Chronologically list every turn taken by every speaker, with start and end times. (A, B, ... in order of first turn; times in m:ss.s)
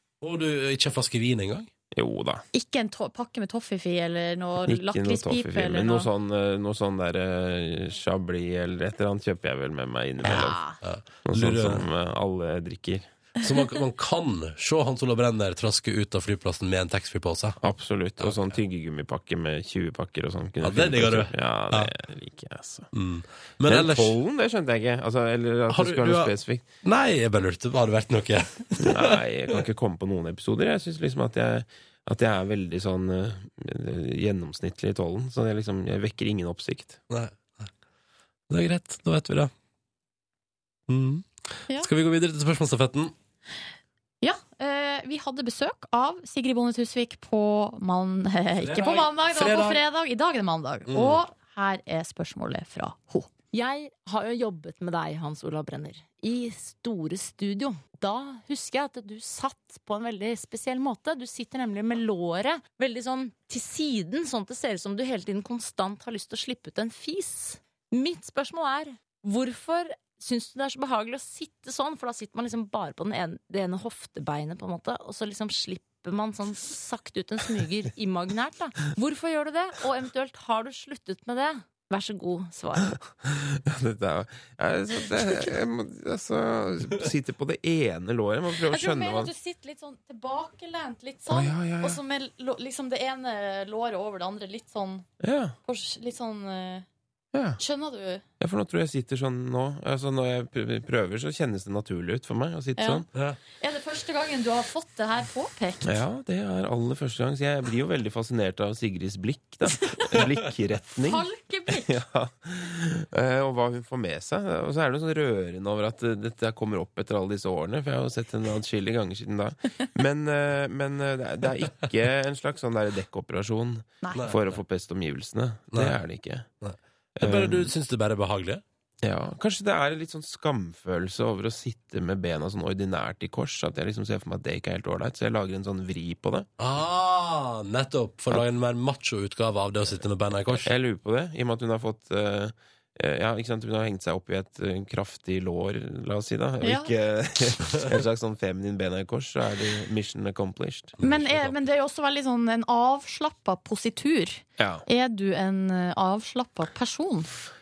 0:00.2-0:01.7 A
0:01.9-0:02.4 B
0:02.5-0:06.1 C
0:04.6-0:10.6 B
0:10.2-0:10.8 C
0:10.3-0:11.8 A
0:11.3-0:13.1 B
0:13.4-0:17.6 A
0:17.6-0:22.9 B
0:18.2-0:18.5 A
0:20.6-0:21.9 A
0:22.9-0:24.1 A
0:23.7-0:26.7 B
0:25.7-0:26.3 A
0:26.8-0:29.1 A
0:28.8-0:37.0 B
0:37.1-0:37.7 A
0:38.5-0:39.5 A
0:40.9-0:43.1 A
0:44.2-0:53.3 C
0:48.6-0:49.8 A
0:50.9-0:51.2 A
0:53.5-1:23.0 D
1:23.2-1:29.3 B
1:28.6-1:35.1 C
1:31.3-1:32.0 B
1:35.2-1:35.6 B
1:35.6-1:36.9 C
1:37.3-1:37.6 B
1:37.6-1:38.2 C
1:38.4-1:43.1 B
1:42.8-1:43.0 C
1:43.6-1:45.9 C
1:45.8-1:51.2 B
1:51.0-1:51.9 C
1:51.8-2:06.5 B
2:04.0-2:04.3 C
2:04.1-2:04.6 A
2:06.6-2:08.6 A
2:07.2-2:07.7 B
2:09.0-2:16.5 B
2:16.6-2:20.7 A
2:20.5-2:31.3 B
2:26.6-2:26.9 C
2:31.0-2:37.3 C
2:34.6-2:34.8 B